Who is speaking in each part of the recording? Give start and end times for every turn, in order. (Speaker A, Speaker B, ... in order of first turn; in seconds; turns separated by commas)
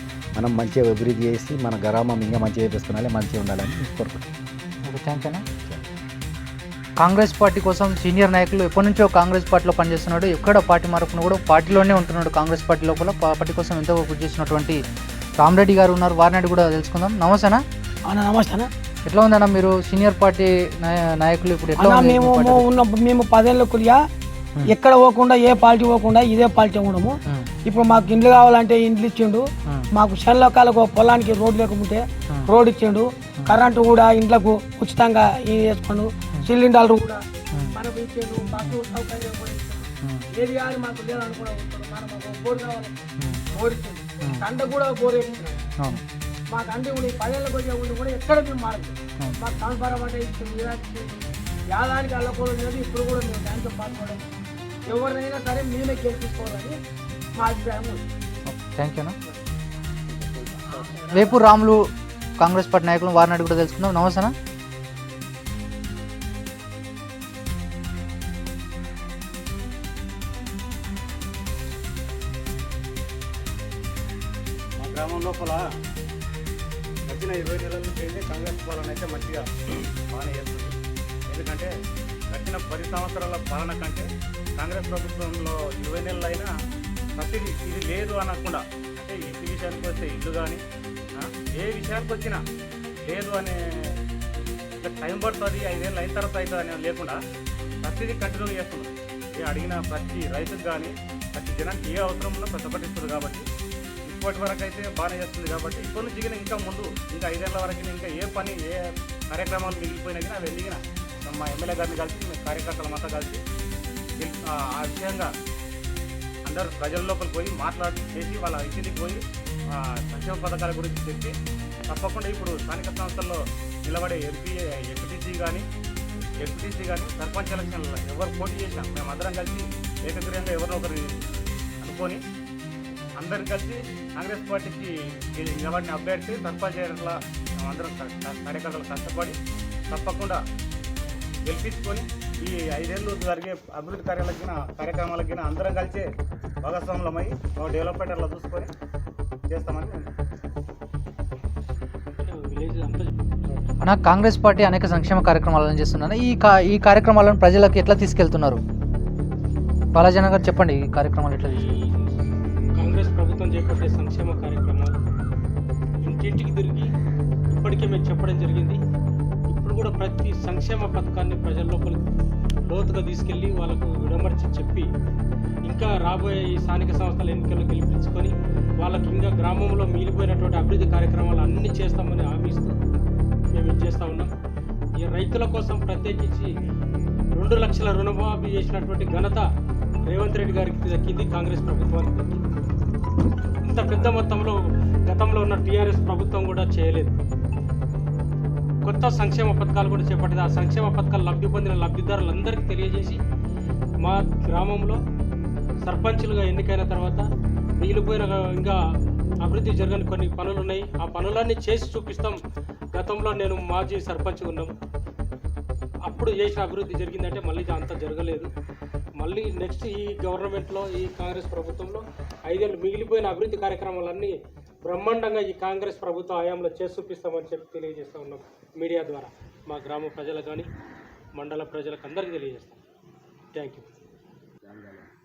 Speaker A: 0.4-4.3, Speaker B: 4.9-5.5, Speaker B: 7.0-14.8, Speaker B: 15.4-17.6, Speaker C: 18.1-18.7, Speaker B: 19.1-22.7, Speaker C: 21.8-24.0, Speaker C: 24.7-37.2, Speaker C: 37.8-45.6, Speaker C: 46.5-51.2, Speaker C: 51.7-54.2, Speaker C: 54.9-56.8, Speaker C: 57.4-58.0, Speaker B: 58.5-59.2, Speaker B: 61.1-64.3, Speaker D: 74.8-75.6, Speaker D: 77.1-79.5, Speaker D: 80.1-80.8, Speaker D: 81.3-81.7, Speaker D: 82.3-84.1, Speaker D: 84.6-86.5, Speaker D: 87.2-90.6, Speaker D: 91.2-92.4, Speaker D: 93.0-93.6, Speaker D: 94.8-97.2, Speaker D: 97.8-103.5, Speaker D: 104.1-113.4, Speaker D: 114.2-115.3, Speaker D: 116.5-119.2, Speaker D: 119.7-121.3, Speaker D: 121.9-125.6, Speaker D: 126.4-131.3, Speaker D: 131.8-132.2, Speaker D: 133.2-139.4, Speaker D: 139.9-140.4, Speaker D: 141.5-146.1, Speaker D: 146.6-148.7, Speaker D: 149.5-150.1, Speaker E: 152.2-153.7, Speaker B: 153.8-158.6, Speaker B: 159.9-161.7, Speaker E: 161.5-162.2, Speaker E: 162.8-165.0, Speaker E: 166.0-166.9, Speaker E: 167.5-168.8, Speaker E: 169.5-172.0, Speaker E: 172.7-174.9, Speaker E: 175.7-182.8, Speaker E: 183.6-184.3, Speaker E: 185.0-186.5, Speaker E: 187.3-189.5, Speaker E: 190.1-192.4, Speaker E: 193.6-197.2, Speaker E: 198.8-203.2, Speaker E: 204.0-205.0, Speaker E: 205.8-207.2, Speaker E: 207.8-208.8, Speaker E: 209.4-212.4, Speaker E: 212.9-214.7, Speaker E: 216.1-218.5, Speaker E: 219.2-230.7, Speaker E: 231.3-232.8, Speaker E: 233.5-233.9